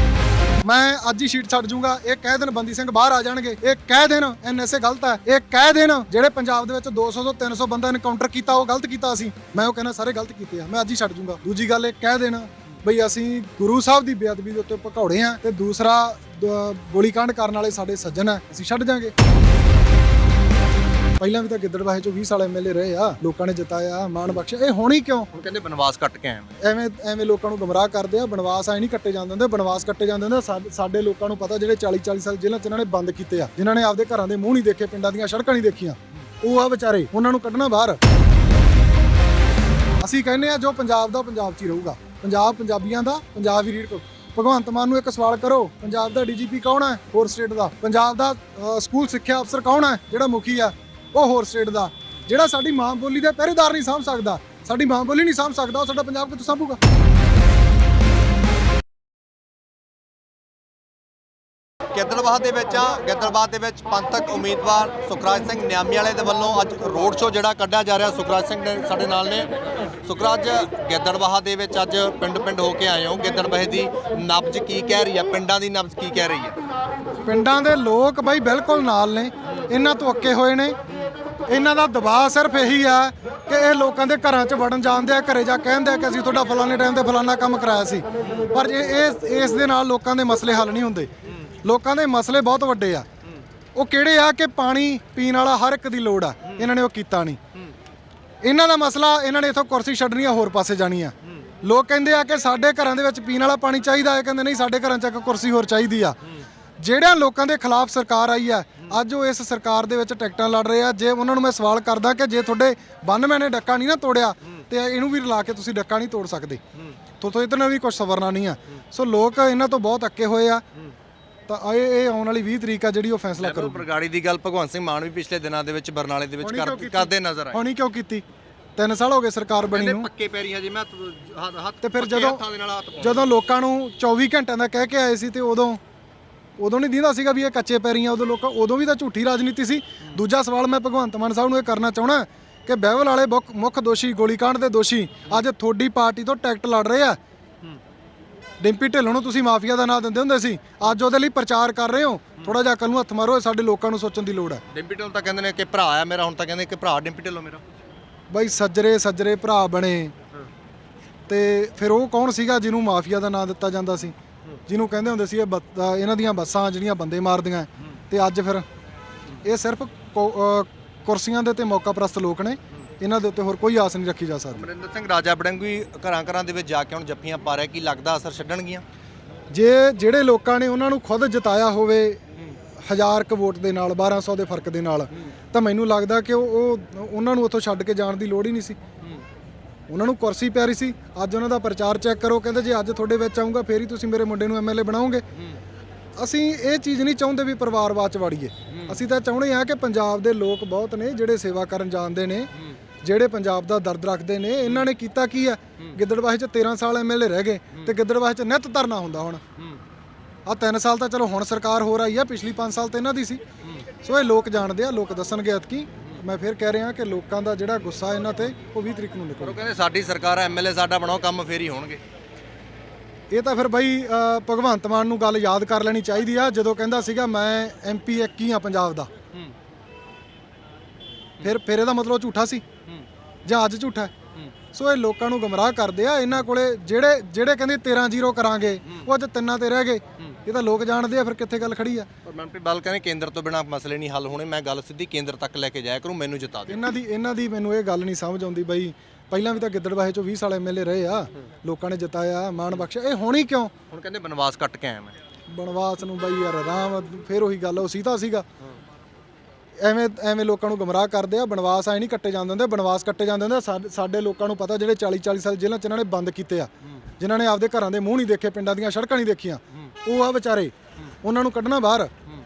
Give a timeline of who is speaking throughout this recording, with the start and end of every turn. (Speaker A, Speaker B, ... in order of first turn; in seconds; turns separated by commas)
Speaker A: 0.6-19.1, Speaker A: 21.2-25.3, Speaker B: 25.3-26.6, Speaker A: 26.6-38.0, Speaker A: 40.0-56.8, Speaker B: 61.9-69.5, Speaker B: 70.0-76.6, Speaker A: 77.2-80.8, Speaker A: 81.5-91.1, Speaker A: 91.6-93.1, Speaker A: 93.8-97.4, Speaker A: 98.4-106.2, Speaker A: 106.8-116.6, Speaker A: 117.2-120.6, Speaker A: 121.5-123.8, Speaker B: 123.4-127.6, Speaker A: 126.4-128.2, Speaker A: 128.8-130.1, Speaker B: 129.7-133.3, Speaker A: 131.8-132.4, Speaker A: 133.0-135.8, Speaker A: 136.6-147.2, Speaker A: 148.6-154.6, Speaker B: 154.7-157.6, Speaker A: 158.3-160.1, Speaker A: 161.3-164.2, Speaker A: 164.7-168.7, Speaker A: 169.4-174.7, Speaker B: 174.5-178.8, Speaker A: 179.5-182.2, Speaker A: 182.8-188.8, Speaker A: 189.9-195.2, Speaker A: 196.2-202.5, Speaker A: 203.0-209.4, Speaker A: 210.5-213.4, Speaker A: 214.0-219.6, Speaker B: 219.4-222.0, Speaker A: 223.3-229.1, Speaker A: 231.4-232.7, Speaker A: 233.5-234.1, Speaker A: 234.7-242.1, Speaker B: 242.2-246.9, Speaker A: 246.7-253.7, Speaker B: 253.9-255.1, Speaker A: 255.5-258.4, Speaker A: 259.8-272.1